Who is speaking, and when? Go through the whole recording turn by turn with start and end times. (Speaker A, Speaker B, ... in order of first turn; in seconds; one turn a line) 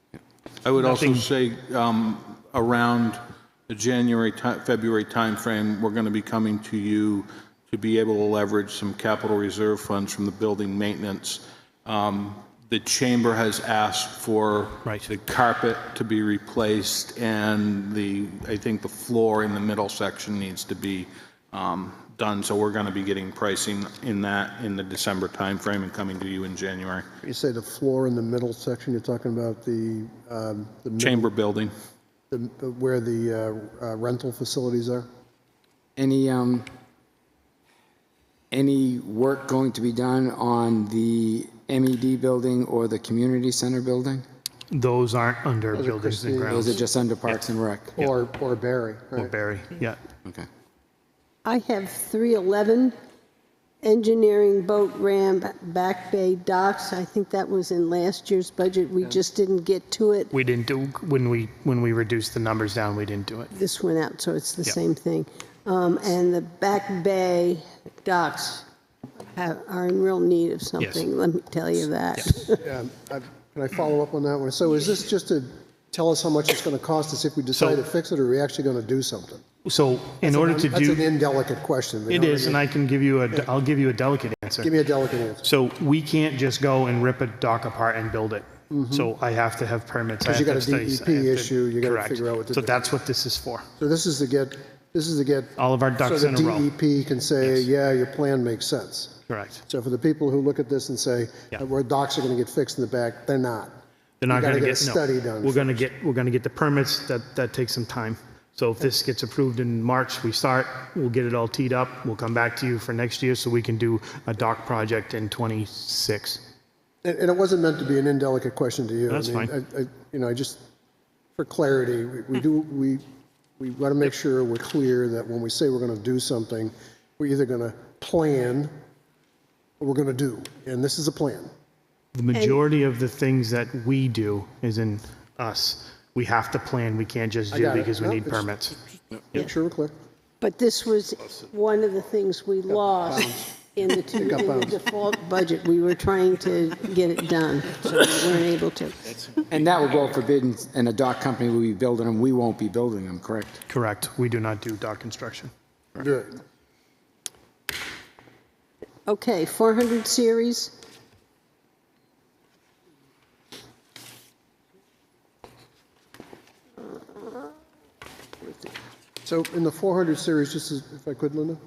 Speaker A: 0.6-27.1
Speaker B: 0.8-1.3
Speaker C: 27.2-31.3
Speaker A: 31.0-31.7
Speaker C: 32.3-35.1
Speaker D: 36.0-36.7
Speaker D: 38.5-44.2
Speaker B: 44.7-46.8
Speaker C: 45.7-46.7
Speaker D: 46.5-48.0
Speaker C: 48.0-49.3
Speaker B: 49.2-50.0
Speaker E: 51.5-53.0
Speaker E: 53.8-60.3
Speaker B: 60.3-63.5
Speaker E: 63.5-68.7
Speaker E: 69.3-72.7
Speaker B: 70.8-71.0
Speaker C: 72.6-79.4
Speaker B: 77.5-77.8
Speaker B: 79.7-81.1
Speaker C: 80.2-82.6
Speaker B: 82.1-84.7
Speaker C: 84.6-85.5
Speaker B: 85.4-93.7
Speaker C: 88.7-89.1
Speaker C: 90.2-92.8
Speaker C: 93.8-103.8
Speaker B: 95.6-96.7
Speaker B: 97.4-97.7
Speaker B: 99.3-99.6
Speaker B: 104.2-116.4
Speaker C: 104.3-105.8
Speaker C: 117.0-120.6
Speaker B: 119.1-119.5
Speaker C: 121.4-123.0
Speaker C: 123.6-128.7
Speaker C: 129.8-131.5
Speaker B: 132.2-138.8
Speaker E: 132.3-132.6
Speaker C: 137.5-138.5
Speaker C: 139.3-139.9
Speaker E: 140.4-149.0
Speaker C: 143.1-143.5
Speaker C: 144.2-144.8
Speaker D: 149.5-153.6
Speaker B: 153.7-155.5
Speaker C: 156.0-156.4
Speaker E: 159.1-160.7
Speaker E: 166.8-167.5
Speaker E: 168.4-168.7
Speaker C: 169.2-171.6